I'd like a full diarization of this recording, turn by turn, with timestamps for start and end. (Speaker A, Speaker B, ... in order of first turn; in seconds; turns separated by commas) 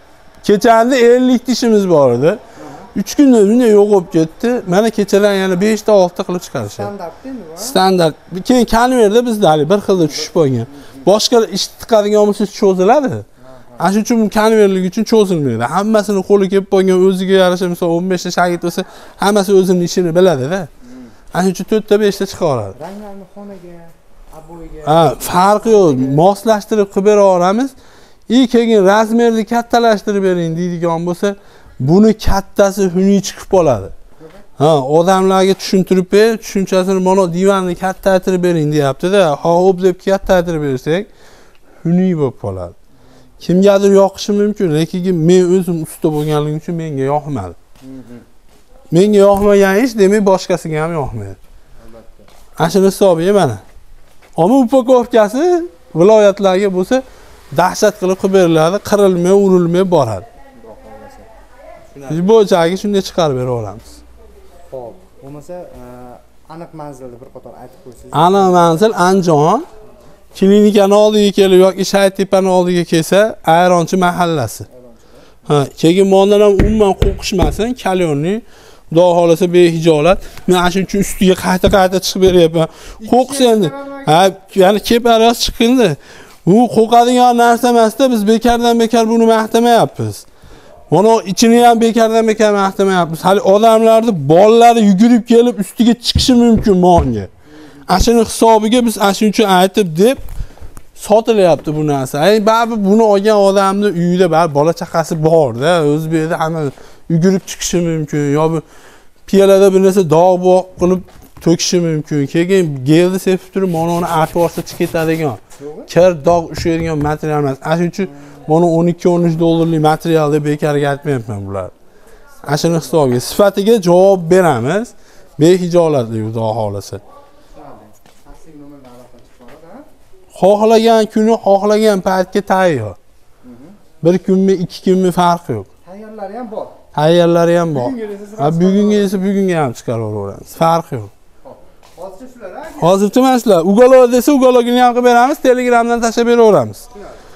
Speaker A: 0.4-2.4, Speaker B: 2.6-2.9, Speaker A: 2.9-6.9, Speaker B: 6.6-7.8, Speaker A: 7.6-13.2, Speaker B: 13.4-13.9, Speaker A: 13.8-20.7, Speaker A: 21.3-22.7, Speaker B: 22.7-26.2, Speaker A: 24.8-27.7, Speaker A: 28.3-33.9, Speaker A: 34.6-41.1, Speaker A: 41.8-42.7, Speaker A: 43.4-47.6, Speaker B: 47.8-48.2, Speaker A: 48.9-51.4, Speaker B: 51.8-52.3, Speaker A: 52.6-53.6, Speaker A: 54.4-60.2, Speaker B: 60.6-61.3, Speaker A: 62.1-64.0, Speaker B: 64.7-69.1, Speaker A: 68.1-69.6, Speaker A: 70.3-74.7, Speaker B: 74.7-75.3, Speaker A: 75.5-90.2, Speaker B: 83.0-84.3, Speaker A: 90.9-97.3, Speaker A: 97.9-100.2, Speaker A: 100.9-108.6, Speaker A: 109.3-121.7, Speaker B: 115.6-115.9, Speaker A: 122.4-127.0, Speaker B: 122.4-123.0, Speaker B: 127.5-129.9, Speaker A: 130.3-133.0, Speaker B: 133.4-133.8, Speaker A: 134.0-135.7, Speaker B: 135.8-136.8, Speaker A: 136.9-141.1, Speaker B: 137.7-139.2, Speaker B: 141.4-143.0, Speaker A: 142.8-146.9